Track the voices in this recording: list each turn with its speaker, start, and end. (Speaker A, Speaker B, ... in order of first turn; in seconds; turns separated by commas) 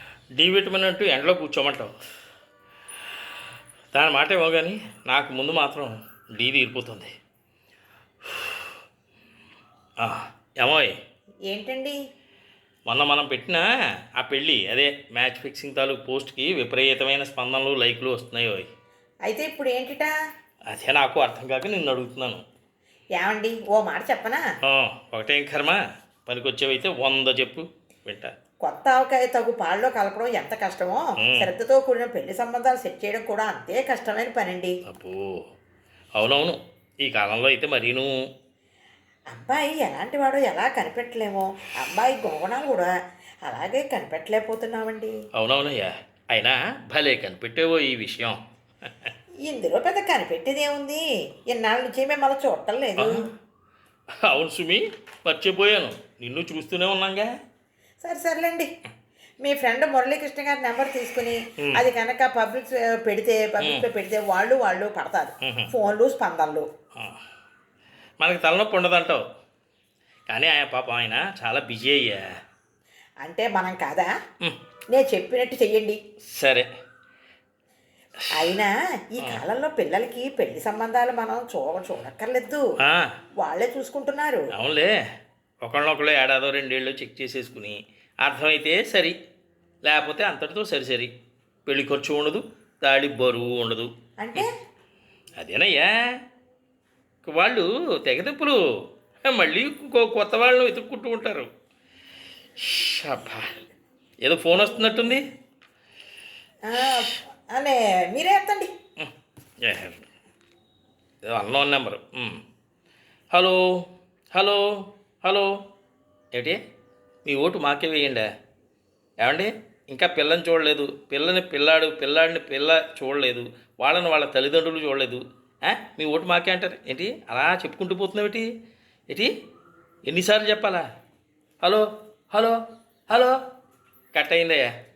Speaker A: 0.4-1.9, Speaker A: 3.9-7.1, Speaker A: 8.3-8.6, Speaker A: 10.0-10.9, Speaker B: 11.5-12.0, Speaker A: 12.9-13.7, Speaker A: 14.2-18.7, Speaker B: 19.2-20.1, Speaker A: 20.7-22.4, Speaker B: 23.1-24.4, Speaker A: 24.6-28.3, Speaker B: 28.6-34.8, Speaker A: 31.2-31.5, Speaker A: 34.9-35.4, Speaker A: 36.2-38.2, Speaker B: 39.3-42.9, Speaker B: 43.5-45.2, Speaker A: 45.3-49.1, Speaker B: 49.4-53.3, Speaker A: 53.0-53.3, Speaker A: 54.2-57.3, Speaker B: 58.0-58.7, Speaker B: 59.4-66.7, Speaker A: 65.4-65.7, Speaker A: 68.2-69.2, Speaker A: 70.3-72.2, Speaker B: 73.2-74.1, Speaker B: 74.9-76.0, Speaker A: 76.3-76.7, Speaker A: 78.2-78.5, Speaker B: 78.3-82.6, Speaker A: 82.8-83.1, Speaker B: 83.4-84.5, Speaker A: 84.5-84.9, Speaker A: 85.6-89.2, Speaker A: 89.8-91.1, Speaker A: 91.7-94.5, Speaker B: 94.2-94.5, Speaker A: 95.4-96.0, Speaker A: 97.2-98.6, Speaker A: 99.2-101.5, Speaker A: 102.6-103.5, Speaker A: 104.2-105.3, Speaker B: 106.7-108.7, Speaker A: 109.6-110.1, Speaker A: 111.2-112.4, Speaker A: 113.3-115.6, Speaker A: 116.3-116.6, Speaker A: 117.2-118.3, Speaker A: 119.2-128.5, Speaker A: 130.1-130.8, Speaker A: 131.6-133.4, Speaker A: 134.1-134.7